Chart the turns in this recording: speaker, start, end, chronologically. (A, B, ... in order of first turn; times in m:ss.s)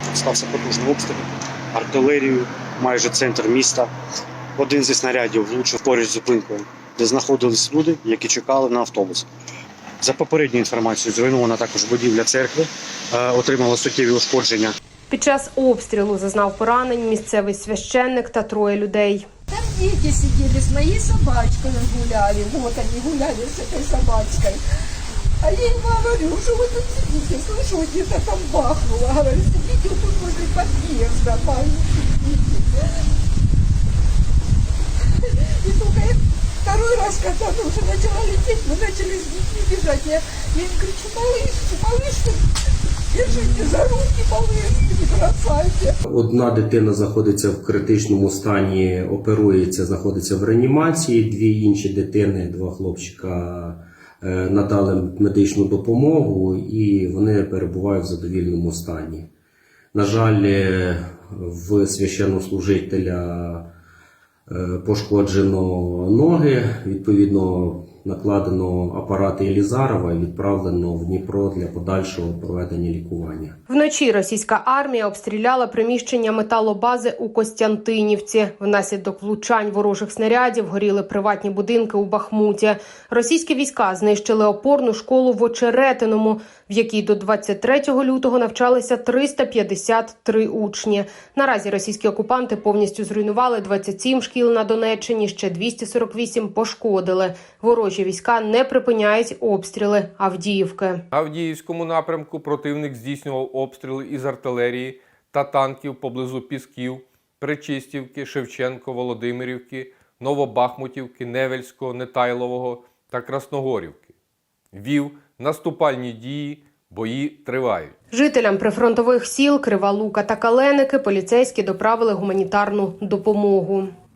0:00.1-0:03.9 A
0:04.6-0:09.3 A
0:10.0-0:14.8 A
0:15.1-0:19.3 B
0:19.5-0:24.6 C
0:25.4-0:32.8 C
0:35.2-0:42.4 C
0:43.1-0:45.9 C
0:46.0-0:59.3 D
0:59.9-1:03.7 D
1:04.5-1:13.6 D
1:13.7-1:41.0 B
1:41.1-1:54.1 E
1:54.7-1:57.9 E
1:58.1-2:03.9 B